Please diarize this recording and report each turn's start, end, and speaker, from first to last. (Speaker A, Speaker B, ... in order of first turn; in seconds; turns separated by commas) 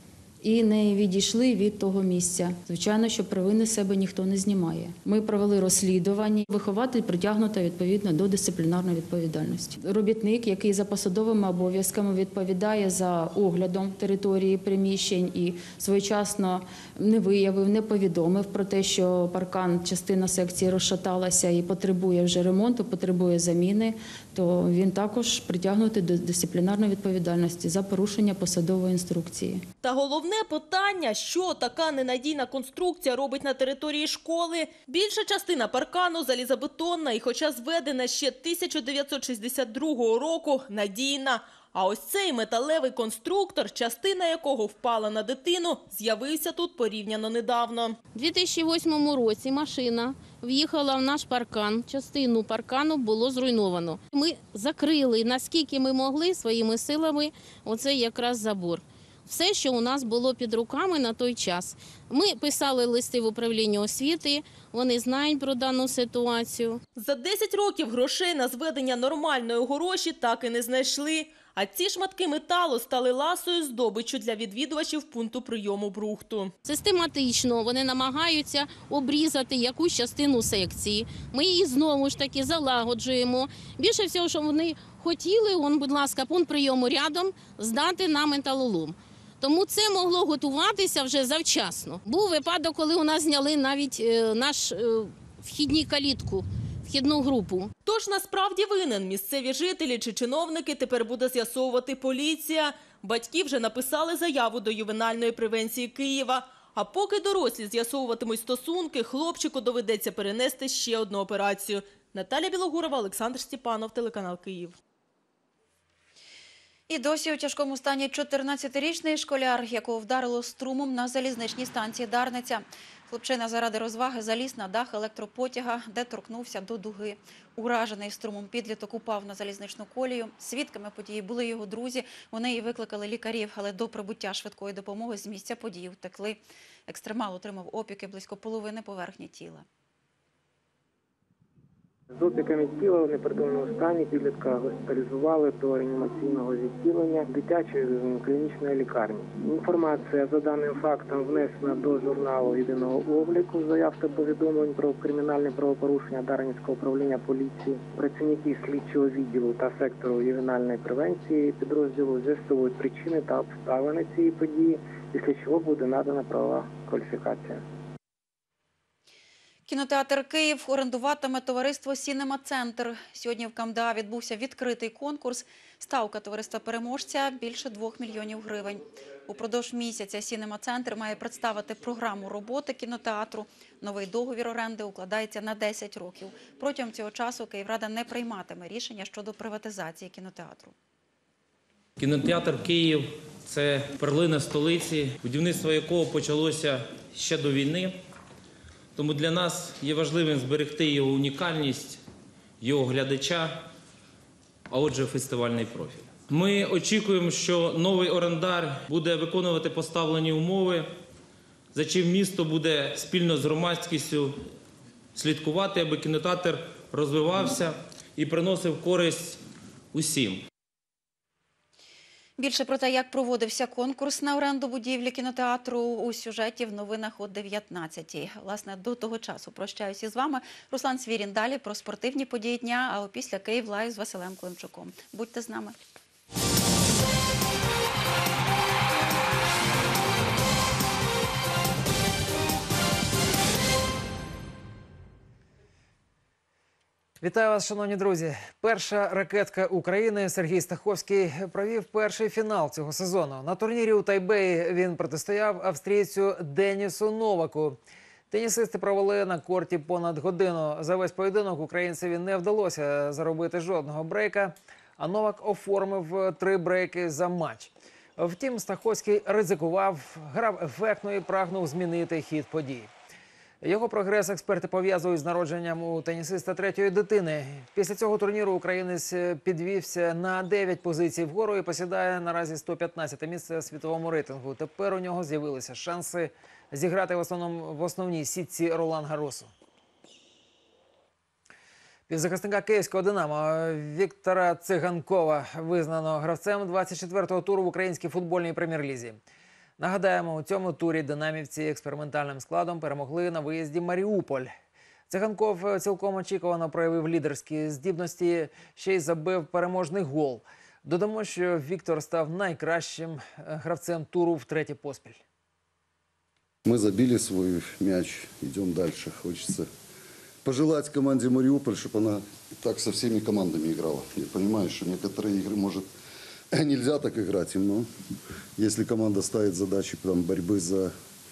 Speaker A: 0.4-29.6, Speaker B: 29.8-48.0, Speaker C: 48.1-66.8, Speaker B: 67.0-76.5, Speaker C: 76.6-97.7, Speaker B: 97.9-114.8, Speaker D: 116.9-139.6, Speaker E: 142.1-167.6, Speaker D: 169.7-190.7, Speaker F: 192.0-197.9, Speaker F: 199.0-202.0, Speaker F: 202.6-203.6, Speaker F: 204.7-210.9, Speaker F: 211.7-214.4, Speaker F: 215.1-219.4, Speaker F: 219.9-220.5, Speaker D: 222.4-235.8, Speaker G: 247.2-257.8, Speaker G: 258.3-272.9, Speaker G: 273.6-289.5, Speaker G: 292.1-299.2, Speaker G: 299.8-304.5, Speaker G: 305.1-315.2, Speaker H: 316.6-319.7, Speaker H: 320.4-325.9, Speaker H: 326.5-327.9, Speaker H: 328.6-330.9